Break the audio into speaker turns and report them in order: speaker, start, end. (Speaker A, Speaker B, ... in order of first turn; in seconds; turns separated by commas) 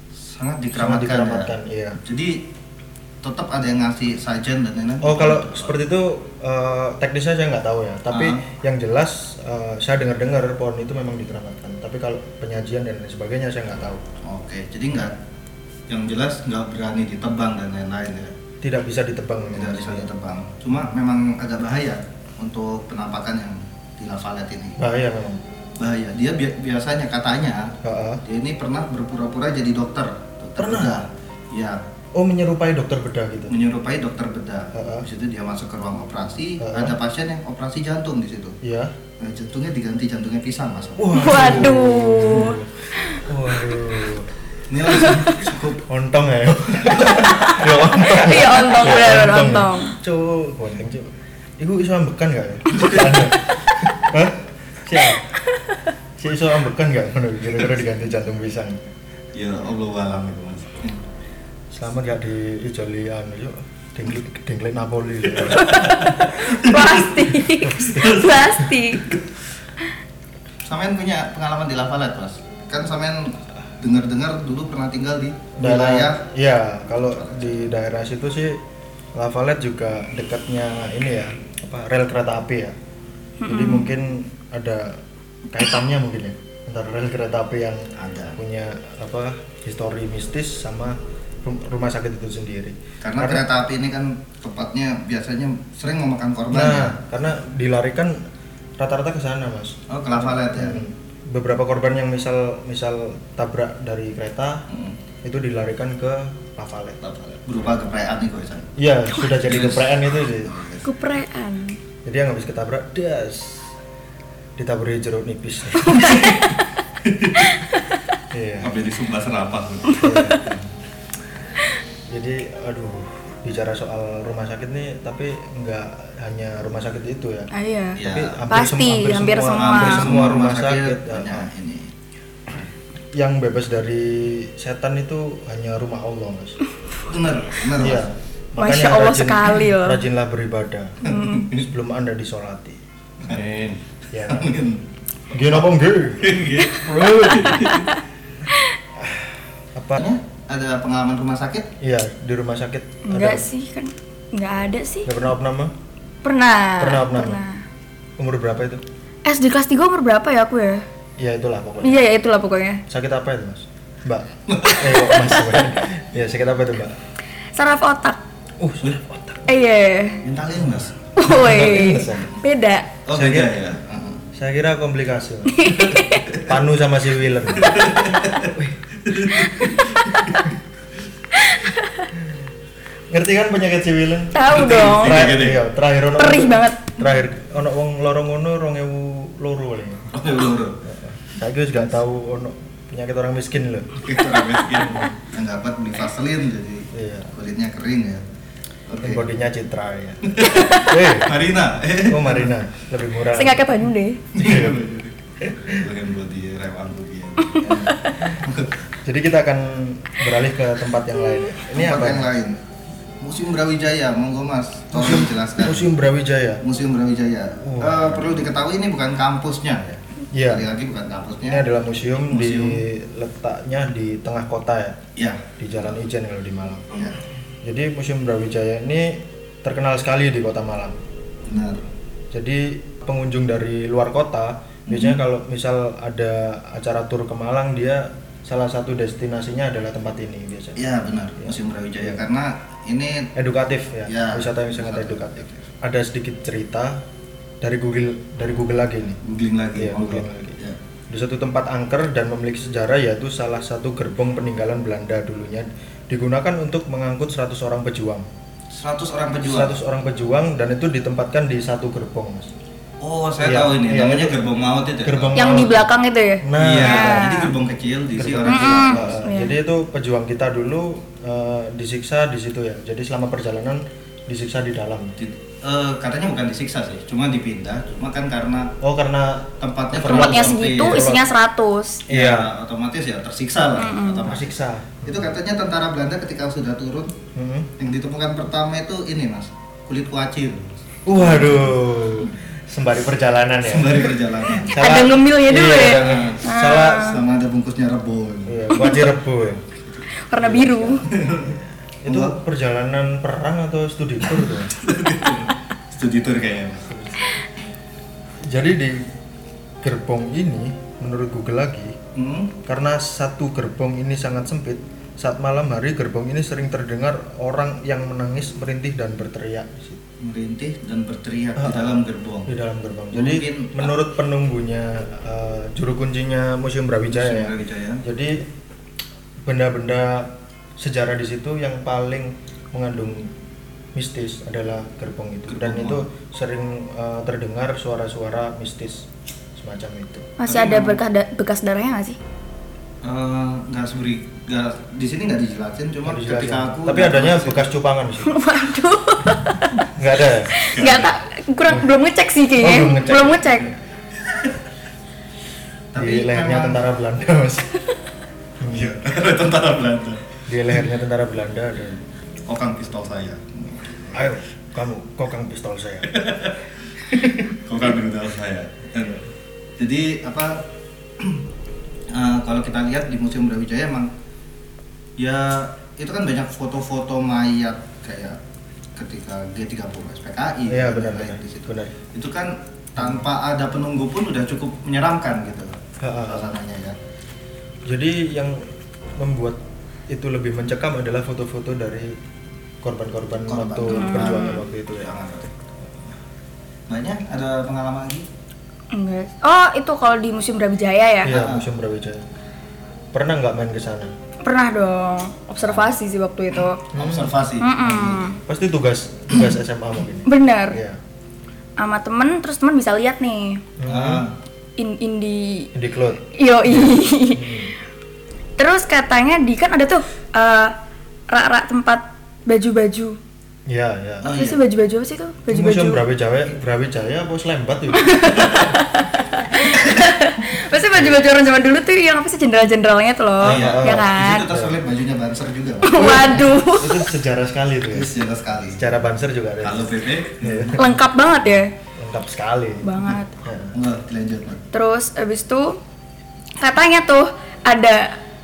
Speaker A: 0.2-2.4, Speaker B: 0.7-2.0, Speaker A: 3.2-5.7, Speaker B: 5.0-14.0, Speaker A: 8.1-8.4, Speaker A: 14.2-15.1, Speaker A: 15.9-18.3, Speaker B: 18.6-20.1, Speaker A: 19.5-24.8, Speaker B: 24.8-25.4, Speaker A: 25.8-31.8, Speaker B: 27.8-28.2, Speaker B: 30.6-31.0, Speaker B: 32.1-33.5, Speaker A: 33.5-38.5, Speaker B: 34.7-35.0, Speaker B: 36.6-37.0, Speaker B: 38.6-38.9, Speaker A: 39.2-41.8, Speaker B: 41.0-44.3, Speaker C: 41.1-43.2, Speaker A: 44.7-45.8, Speaker C: 44.9-45.3, Speaker B: 45.9-55.3, Speaker A: 46.9-47.6, Speaker C: 47.3-50.0, Speaker A: 52.7-53.3, Speaker B: 56.2-58.8, Speaker A: 59.3-61.0, Speaker B: 61.7-65.9, Speaker A: 65.3-67.0, Speaker C: 65.5-69.0, Speaker A: 68.0-68.3, Speaker A: 70.6-76.2, Speaker B: 75.6-78.6, Speaker A: 77.2-77.5, Speaker B: 79.2-82.7, Speaker C: 83.4-83.9, Speaker B: 83.5-93.4, Speaker A: 88.0-88.4, Speaker A: 93.0-96.9, Speaker B: 96.5-98.2, Speaker B: 98.8-104.6, Speaker A: 99.9-100.8, Speaker A: 104.7-105.0, Speaker B: 105.2-107.0, Speaker A: 107.0-108.7, Speaker B: 108.8-110.5, Speaker A: 109.4-110.9, Speaker C: 110.8-111.8, Speaker B: 112.0-113.7, Speaker B: 114.6-116.3, Speaker C: 115.8-116.8, Speaker A: 117.0-117.5, Speaker C: 117.4-118.0, Speaker B: 118.3-118.7, Speaker A: 118.6-120.7, Speaker C: 119.9-120.4, Speaker B: 120.0-120.4, Speaker B: 122.1-131.5, Speaker C: 127.5-130.1, Speaker A: 128.0-128.6, Speaker A: 129.5-131.9, Speaker B: 133.2-136.6, Speaker A: 137.0-138.0, Speaker B: 137.8-142.8, Speaker C: 138.6-140.0, Speaker C: 141.0-141.4, Speaker A: 141.1-141.6, Speaker A: 143.2-144.8, Speaker B: 144.1-144.5, Speaker B: 145.3-146.4, Speaker A: 146.2-147.9, Speaker C: 146.6-148.7, Speaker B: 148.9-150.0, Speaker A: 150.0-151.7, Speaker B: 151.8-153.5, Speaker C: 153.0-155.1, Speaker B: 155.1-155.7, Speaker C: 156.2-157.6, Speaker B: 156.8-157.4, Speaker B: 158.2-158.8, Speaker C: 159.2-160.8, Speaker B: 161.2-162.0, Speaker C: 161.8-162.8, Speaker B: 162.9-166.9, Speaker A: 164.5-164.9, Speaker C: 164.7-165.6, Speaker C: 167.6-168.2, Speaker B: 168.6-169.5, Speaker C: 169.5-170.2, Speaker A: 170.2-171.0, Speaker B: 170.7-172.3, Speaker C: 171.2-172.9, Speaker A: 173.1-174.2, Speaker B: 173.1-173.6, Speaker B: 174.3-177.9, Speaker C: 175.5-176.3, Speaker A: 176.3-176.5, Speaker A: 177.6-180.5, Speaker C: 181.3-182.1, Speaker B: 183.1-190.1, Speaker C: 184.3-185.2, Speaker A: 184.5-185.6, Speaker C: 186.2-187.0, Speaker A: 190.1-190.8, Speaker B: 190.8-194.1, Speaker A: 193.9-198.2, Speaker B: 194.8-195.1, Speaker B: 196.9-197.3, Speaker A: 198.9-199.2, Speaker B: 199.0-201.3, Speaker A: 200.2-202.5, Speaker B: 202.1-203.7, Speaker C: 203.3-204.2, Speaker A: 204.3-205.1, Speaker B: 204.4-204.8, Speaker B: 205.4-205.8, Speaker A: 205.7-208.7, Speaker C: 207.6-208.1, Speaker B: 209.0-212.3, Speaker A: 211.7-212.6, Speaker A: 213.2-215.9, Speaker B: 214.9-216.6, Speaker A: 216.6-221.6, Speaker B: 217.6-218.4, Speaker B: 220.3-220.7, Speaker B: 221.5-225.0, Speaker A: 222.2-222.8, Speaker A: 225.2-225.5, Speaker B: 225.6-227.1, Speaker B: 227.6-230.9, Speaker A: 231.5-231.8, Speaker B: 232.3-240.8, Speaker A: 234.9-235.1, Speaker A: 240.8-243.3, Speaker B: 241.4-242.2, Speaker B: 243.3-247.0, Speaker A: 244.1-245.7, Speaker B: 247.6-249.2, Speaker A: 249.2-250.8, Speaker B: 249.8-250.6, Speaker B: 251.1-258.3, Speaker A: 258.7-259.8, Speaker B: 259.4-262.5, Speaker A: 263.0-265.7, Speaker B: 263.4-264.4, Speaker B: 265.0-265.9, Speaker C: 265.3-267.5, Speaker B: 266.4-267.3, Speaker A: 266.6-269.2, Speaker B: 268.1-275.1, Speaker C: 268.4-269.5, Speaker A: 275.2-278.7, Speaker B: 278.8-281.3, Speaker A: 279.6-281.1, Speaker C: 280.0-282.0, Speaker A: 282.1-287.1, Speaker B: 282.1-282.5, Speaker C: 283.8-284.3, Speaker B: 284.2-285.3, Speaker B: 287.3-287.7, Speaker A: 287.8-291.7, Speaker B: 291.1-297.2, Speaker C: 291.1-291.5, Speaker A: 293.6-294.8, Speaker C: 294.6-297.2, Speaker A: 295.9-298.6, Speaker B: 298.5-299.6, Speaker C: 298.7-299.1, Speaker C: 300.3-301.1, Speaker B: 300.4-304.7, Speaker A: 301.1-302.3, Speaker A: 304.4-306.9, Speaker B: 306.9-307.2, Speaker B: 308.4-309.1, Speaker B: 309.8-311.9, Speaker A: 312.1-312.6, Speaker B: 312.6-320.0, Speaker A: 320.2-322.6, Speaker B: 321.6-321.9, Speaker B: 322.5-328.4, Speaker A: 323.1-323.9, Speaker A: 327.1-328.0, Speaker B: 329.4-333.3, Speaker B: 333.9-340.3, Speaker A: 335.5-336.0, Speaker C: 340.4-342.2, Speaker A: 340.5-341.0, Speaker A: 343.0-347.7, Speaker B: 346.0-348.4, Speaker C: 348.2-349.9, Speaker B: 349.9-350.6, Speaker C: 350.5-353.7, Speaker A: 350.6-351.1, Speaker B: 352.6-353.7, Speaker A: 354.2-354.5, Speaker A: 355.9-356.8, Speaker B: 355.9-357.7, Speaker B: 358.6-359.0, Speaker A: 358.7-360.4, Speaker B: 360.5-362.0, Speaker A: 362.5-364.3, Speaker B: 364.1-366.2, Speaker A: 366.1-369.2, Speaker B: 367.1-367.4, Speaker A: 369.8-370.6, Speaker A: 371.2-371.4, Speaker A: 372.1-374.1, Speaker A: 375.2-378.4, Speaker A: 378.9-386.9, Speaker B: 380.7-381.9, Speaker B: 382.9-383.3, Speaker B: 386.0-386.6, Speaker B: 387.8-388.6, Speaker B: 389.2-392.1, Speaker B: 392.8-395.1, Speaker A: 393.5-395.5, Speaker C: 393.9-394.6, Speaker A: 396.9-398.2, Speaker C: 398.9-401.3, Speaker B: 401.2-402.2, Speaker A: 401.2-401.6, Speaker B: 403.1-404.1, Speaker C: 404.4-406.8, Speaker A: 406.8-408.2, Speaker B: 406.9-407.3, Speaker C: 407.6-408.4, Speaker B: 408.4-411.0, Speaker C: 410.2-410.8, Speaker C: 411.8-413.6, Speaker B: 413.8-414.2, Speaker A: 413.8-414.3, Speaker C: 414.8-415.7, Speaker B: 415.7-417.7, Speaker C: 416.3-417.5, Speaker C: 418.6-420.7, Speaker C: 421.3-423.2, Speaker B: 423.7-424.4, Speaker A: 424.2-424.6, Speaker C: 424.3-426.0, Speaker B: 425.5-428.4, Speaker C: 428.0-434.5, Speaker B: 430.9-431.2, Speaker B: 433.4-434.8, Speaker A: 433.4-436.4, Speaker C: 435.8-437.0, Speaker B: 436.1-438.1, Speaker A: 437.9-438.9, Speaker B: 438.7-440.9, Speaker A: 439.6-440.8, Speaker C: 440.7-441.7, Speaker B: 442.0-443.7, Speaker C: 442.8-443.3, Speaker A: 443.7-444.6, Speaker C: 444.7-445.8, Speaker C: 446.6-448.2